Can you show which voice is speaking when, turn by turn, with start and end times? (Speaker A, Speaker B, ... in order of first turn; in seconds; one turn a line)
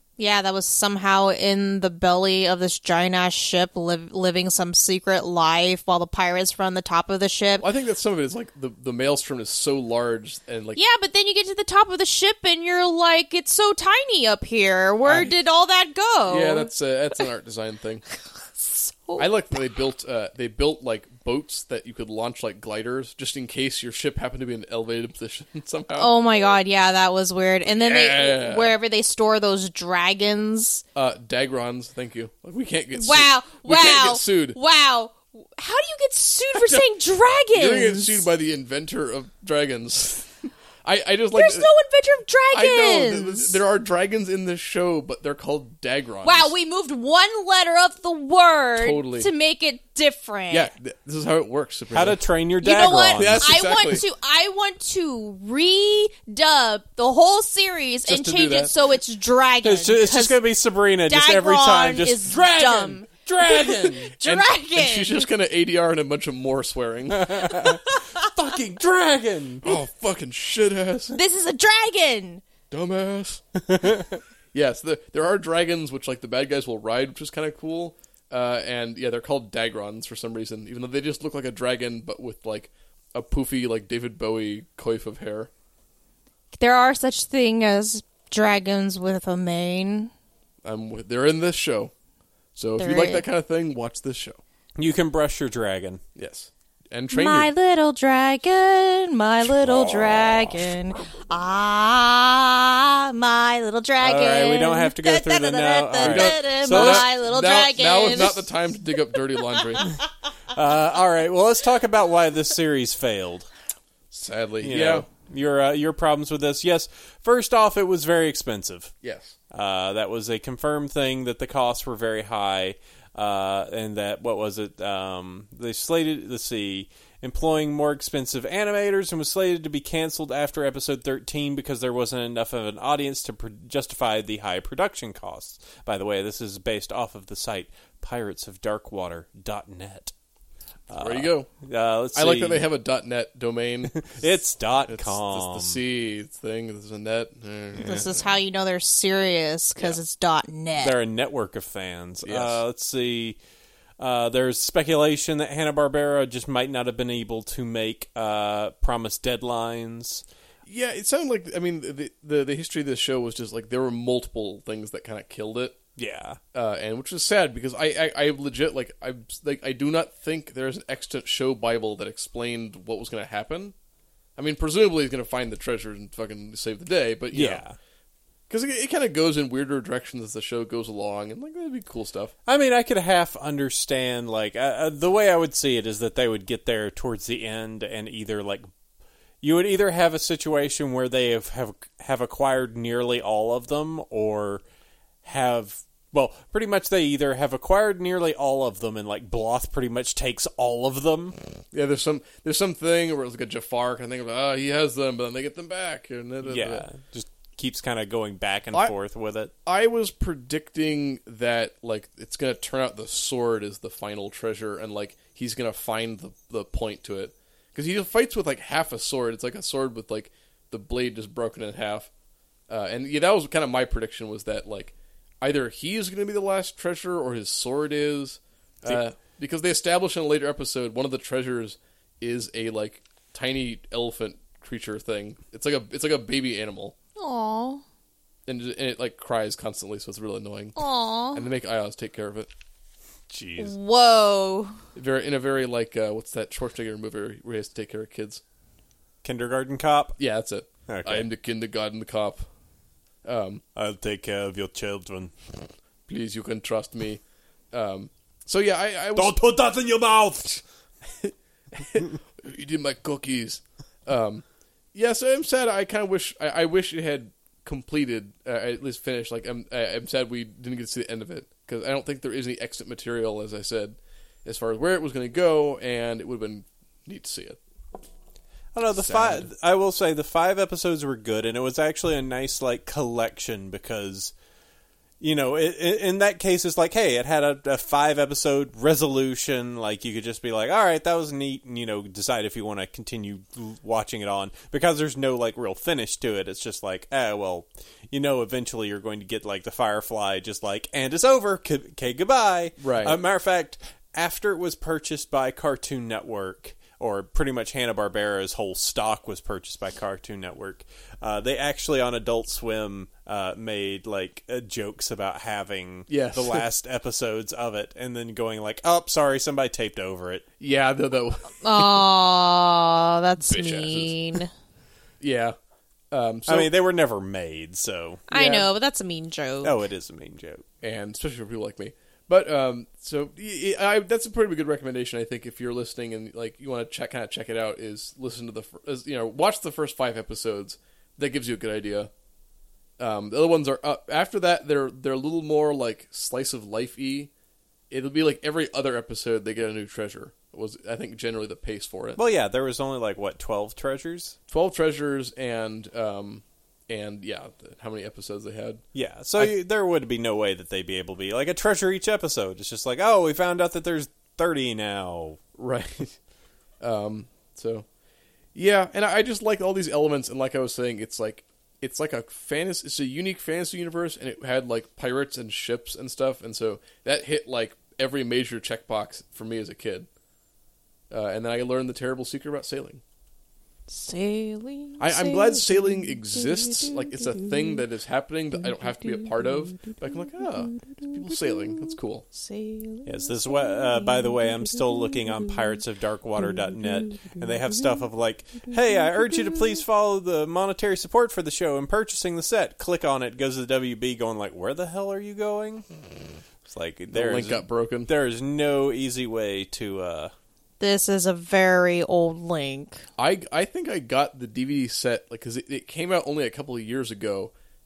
Speaker A: 0.2-7.7
Speaker B: 7.6-10.8
Speaker A: 10.8-16.7
Speaker B: 15.1-15.3
Speaker B: 16.3-18.1
Speaker A: 18.6-19.3
Speaker B: 19.2-26.1
Speaker A: 25.9-30.8
Speaker B: 27.6-28.8
Speaker B: 30.9-34.6
Speaker A: 33.0-38.2
Speaker B: 36.5-36.9
Speaker B: 37.5-41.7
Speaker A: 41.4-43.5
Speaker B: 42.5-46.5
Speaker A: 46.2-50.7
Speaker B: 48.8-49.3
Speaker B: 50.5-52.2
Speaker C: 51.9-53.5
Speaker A: 52.6-60.4
Speaker B: 53.1-54.0
Speaker B: 58.1-58.7
Speaker C: 59.6-64.1
Speaker A: 61.1-63.1
Speaker B: 63.9-67.6
Speaker A: 64.0-65.3
Speaker C: 67.1-69.7
Speaker B: 69.6-71.2
Speaker A: 71.1-72.4
Speaker B: 72.7-74.0
Speaker C: 73.7-74.0
Speaker B: 74.5-85.5
Speaker A: 86.5-90.1
Speaker B: 90.6-91.9
Speaker B: 92.5-94.4
Speaker A: 92.8-93.2
Speaker C: 94.8-96.0
Speaker B: 96.2-97.5
Speaker A: 97.1-108.5
Speaker C: 99.6-100.3
Speaker C: 104.0-107.1
Speaker B: 106.0-109.9
Speaker C: 110.5-113.5
Speaker B: 114.1-115.1
Speaker C: 114.6-118.9
Speaker B: 119.0-119.4
Speaker C: 119.5-140.1
Speaker C: 140.9-142.7
Speaker B: 141.0-141.5
Speaker B: 142.2-144.2
Speaker C: 143.9-145.8
Speaker B: 144.9-148.2
Speaker A: 147.8-150.9
Speaker C: 150.8-153.4
Speaker B: 152.2-152.6
Speaker C: 154.0-160.2
Speaker B: 160.7-165.8
Speaker C: 166.0-166.4
Speaker B: 166.5-173.7
Speaker B: 174.4-177.6
Speaker C: 177.3-177.8
Speaker B: 178.5-182.3
Speaker C: 182.5-188.7
Speaker C: 189.4-194.6
Speaker C: 195.2-201.4
Speaker B: 201.7-206.9
Speaker C: 206.4-209.5
Speaker B: 209.7-222.1
Speaker B: 222.7-237.0
Speaker A: 237.2-237.8
Speaker B: 238.5-240.8
Speaker A: 240.8-241.5
Speaker B: 241.3-242.5
Speaker C: 243.3-243.8
Speaker A: 243.6-244.8
Speaker B: 244.9-248.4
Speaker C: 249.2-250.2
Speaker B: 250.2-252.5
Speaker C: 250.9-251.3
Speaker B: 253.2-253.6
Speaker C: 253.8-255.3
Speaker B: 256.1-257.2
Speaker B: 257.7-259.4
Speaker C: 259.1-260.6
Speaker B: 261.1-277.6
Speaker C: 278.7-284.3
Speaker B: 278.9-279.5
Speaker C: 285.2-320.4
Speaker B: 302.8-303.2
Speaker B: 316.1-316.6
Speaker B: 320.6-322.1
Speaker A: 321.6-324.5
Speaker B: 323.5-324.4
Speaker B: 325.2-325.6
Speaker B: 326.1-326.7
Speaker C: 326.5-328.2
Speaker A: 328.3-329.8
Speaker B: 328.3-328.7
Speaker C: 329.6-330.6
Speaker B: 330.8-342.1
Speaker B: 343.0-347.3
Speaker B: 347.9-352.2
Speaker C: 352.2-354.4
Speaker B: 354.5-358.8
Speaker C: 358.9-365.4
Speaker B: 365.6-366.2
Speaker B: 366.8-367.9
Speaker B: 368.6-380.1
Speaker B: 381.1-383.0
Speaker A: 383.9-387.8
Speaker B: 385.0-392.3
Speaker A: 389.0-389.9
Speaker A: 390.9-391.4
Speaker A: 392.3-393.4
Speaker C: 393.1-405.9
Speaker A: 394.1-394.4
Speaker C: 406.6-410.3
Speaker B: 407.1-408.1
Speaker A: 410.8-413.0
Speaker B: 413.2-417.5